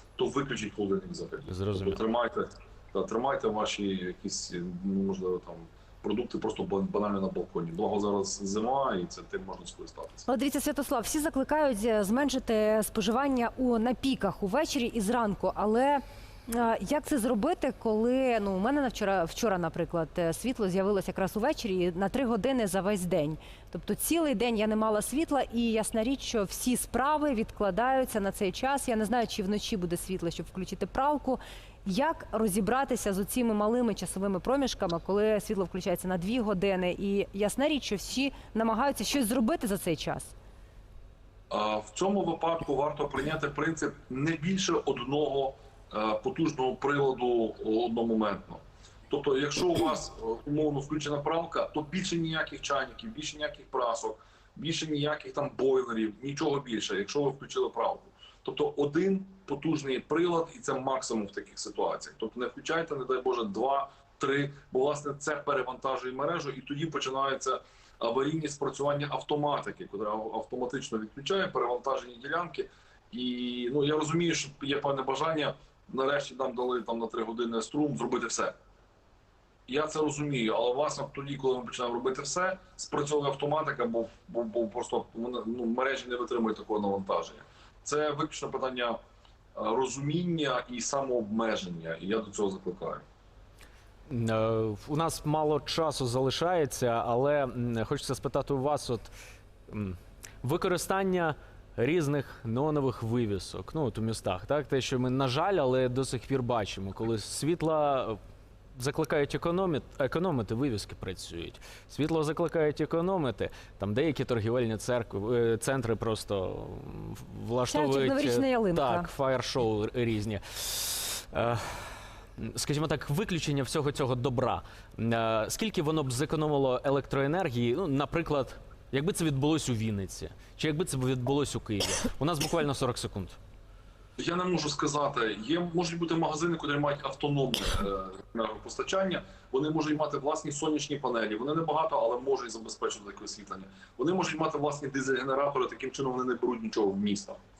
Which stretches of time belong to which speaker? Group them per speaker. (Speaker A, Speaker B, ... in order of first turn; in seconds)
Speaker A: 0.2-10.3, 41.5-78.5, 79.7-89.0, 89.5-93.0, 134.2-147.4
Speaker B: 1.5-2.0, 94.1-99.1, 99.7-108.2, 108.8-133.4
Speaker C: 10.3-40.3, 117.7-119.1